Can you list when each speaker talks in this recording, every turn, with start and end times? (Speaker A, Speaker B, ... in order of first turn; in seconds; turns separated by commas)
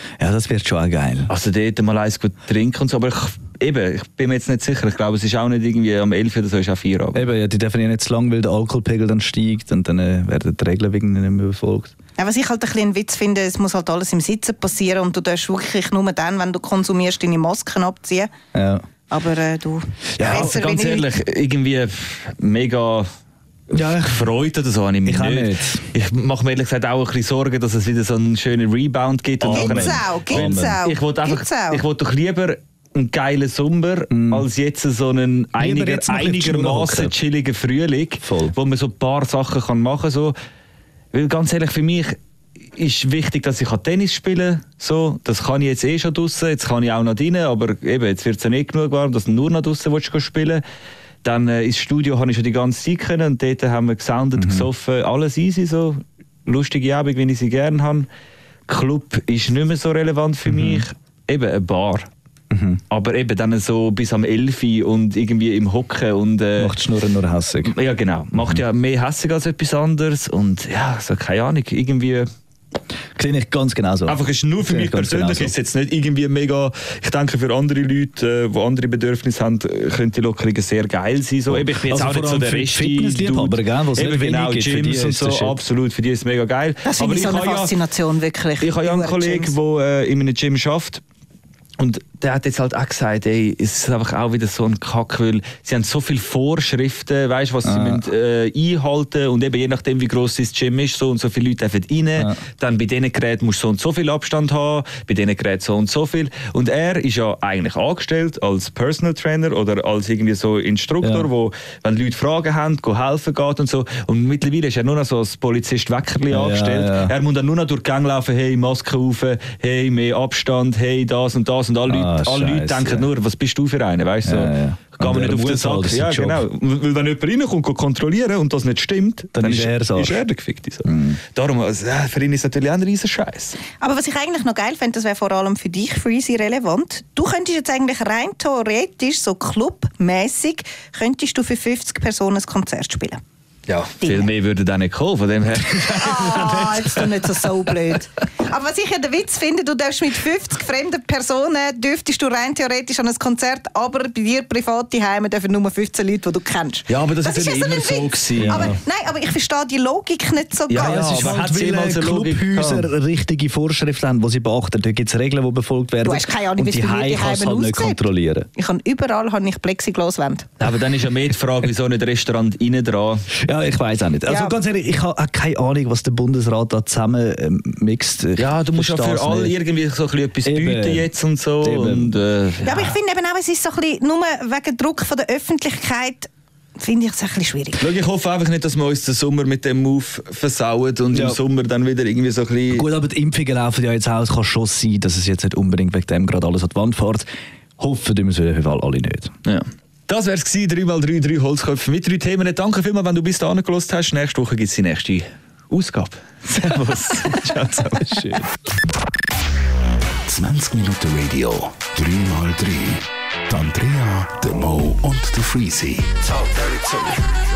Speaker A: 0.2-1.3, Speaker B: 1.3-7.3, Speaker A: 7.1-11.9, Speaker C: 12.2-18.3, Speaker A: 18.5-18.9, Speaker C: 19.1-21.1, Speaker A: 20.2-20.6, Speaker B: 20.2-23.1, Speaker A: 23.7-24.3, Speaker B: 24.1-40.3, Speaker A: 25.1-25.9, Speaker A: 29.4-30.8, Speaker C: 29.5-31.8, Speaker A: 34.1-34.5, Speaker A: 35.6-37.1, Speaker A: 38.2-38.6, Speaker B: 41.1-42.2, Speaker B: 42.7-50.6, Speaker B: 51.2-58.1, Speaker A: 54.4-54.7, Speaker B: 58.7-62.1, Speaker A: 60.5-60.9, Speaker A: 62.5-62.8, Speaker B: 62.9-66.8, Speaker A: 66.6-67.7, Speaker B: 67.6-72.3, Speaker A: 73.2-75.5, Speaker B: 74.1-87.8, Speaker A: 81.5-85.6, Speaker C: 86.8-89.5, Speaker B: 88.6-91.0, Speaker B: 91.8-133.6, Speaker A: 97.7-98.0, Speaker A: 111.0-111.3, Speaker A: 116.3-117.1, Speaker A: 121.9-123.1, Speaker A: 124.2-126.4, Speaker A: 129.3-130.2, Speaker A: 130.8-131.2, Speaker C: 133.8-143.2, Speaker B: 143.7-147.6, Speaker C: 144.0-144.3, Speaker C: 145.9-161.3, Speaker B: 156.9-158.8, Speaker A: 158.4-158.8, Speaker B: 160.7-162.9, Speaker A: 160.7-168.5, Speaker C: 166.0-168.0, Speaker C: 168.6-170.5, Speaker B: 170.6-173.3, Speaker A: 173.3-179.5, Speaker C: 174.3-174.6, Speaker B: 178.4-183.0, Speaker A: 180.4-182.1, Speaker C: 182.7-187.8, Speaker B: 187.8-192.9, Speaker A: 191.1-191.4, Speaker A: 192.7-197.3, Speaker A: 197.8-199.3, Speaker B: 199.4-208.5, Speaker A: 208.1-208.4, Speaker D: 210.3-216.2